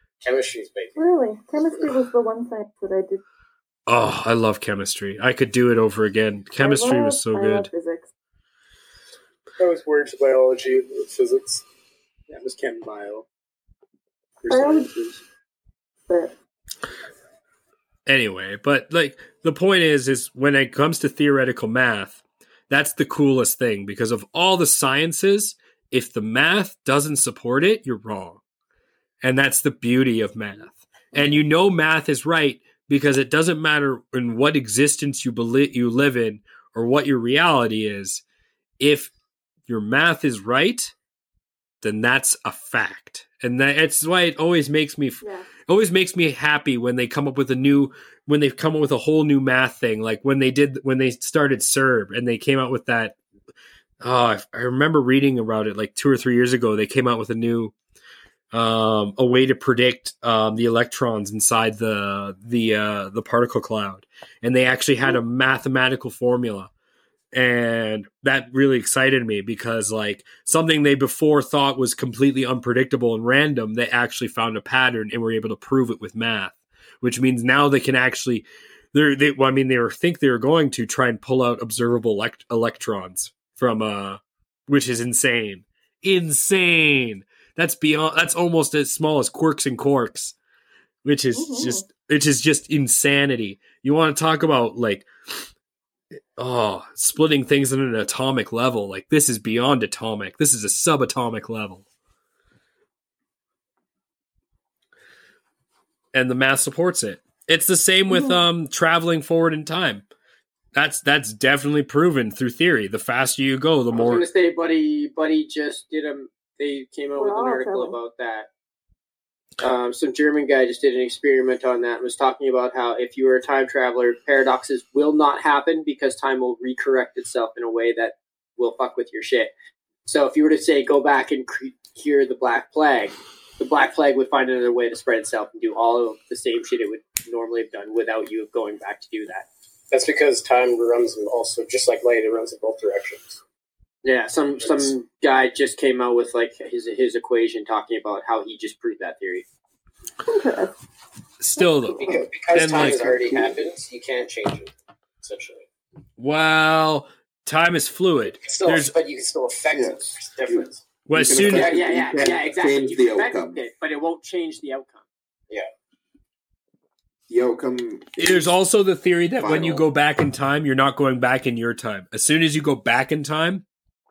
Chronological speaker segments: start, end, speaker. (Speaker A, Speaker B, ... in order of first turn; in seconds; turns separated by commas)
Speaker A: 0.2-1.0, Speaker B: 0.9-3.2, Speaker C: 3.9-7.7, Speaker B: 6.6-8.1, Speaker A: 9.6-11.6, Speaker D: 12.3-13.2, Speaker D: 14.4-15.2, Speaker B: 14.5-14.9, Speaker B: 16.1-16.3, Speaker C: 18.1-28.4, Speaker C: 29.2-38.2, Speaker C: 38.8-39.1, Speaker C: 39.7-40.9, Speaker C: 41.8-53.1, Speaker B: 45.2-45.5, Speaker C: 54.0-57.7, Speaker C: 58.5-66.7, Speaker C: 67.3-90.3, Speaker C: 91.0-95.1, Speaker B: 91.3-91.8, Speaker C: 96.4-101.8, Speaker C: 106.1-110.0, Speaker B: 108.1-108.4, Speaker C: 110.7-114.2, Speaker D: 113.9-118.5, Speaker B: 117.2-118.0, Speaker D: 119.6-129.5, Speaker D: 130.1-139.5, Speaker A: 139.9-143.4, Speaker D: 144.0-149.4, Speaker B: 150.2-150.7, Speaker C: 151.4-153.2, Speaker A: 151.8-155.7, Speaker E: 152.6-153.5, Speaker C: 156.2-158.9, Speaker A: 158.3-160.8, Speaker E: 159.7-163.6, Speaker C: 161.1-161.8, Speaker D: 161.5-165.0, Speaker A: 161.5-161.8, Speaker E: 167.3-168.4, Speaker C: 168.2-173.6, Speaker E: 169.4-169.8